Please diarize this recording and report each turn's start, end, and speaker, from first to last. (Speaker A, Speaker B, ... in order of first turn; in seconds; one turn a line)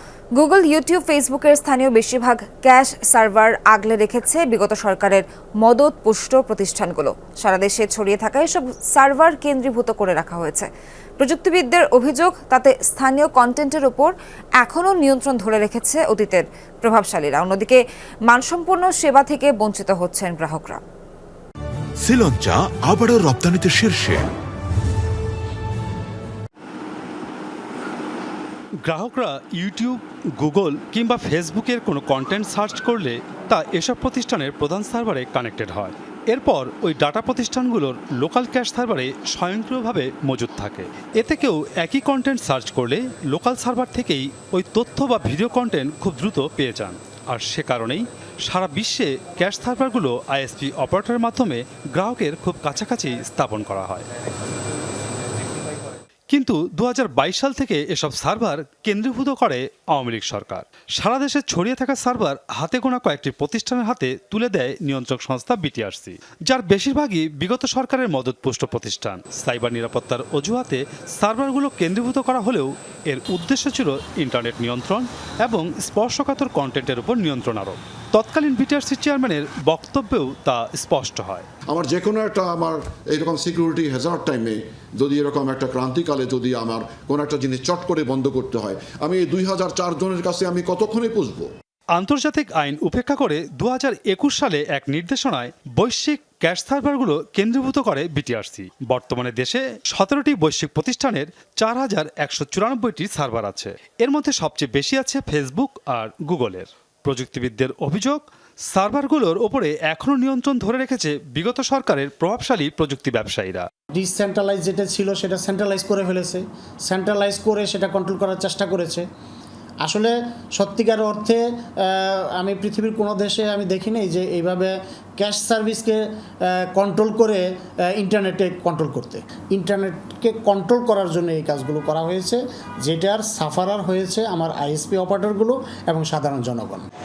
Speaker A: 0.3-10.7
Speaker A: 11.2-20.8
Speaker B: 22.0-24.2
Speaker C: 28.8-54.0
Speaker C: 56.3-81.5
Speaker D: 81.7-91.5
Speaker C: 91.9-113.7
Speaker E: 113.9-119.0
Speaker E: 119.8-136.9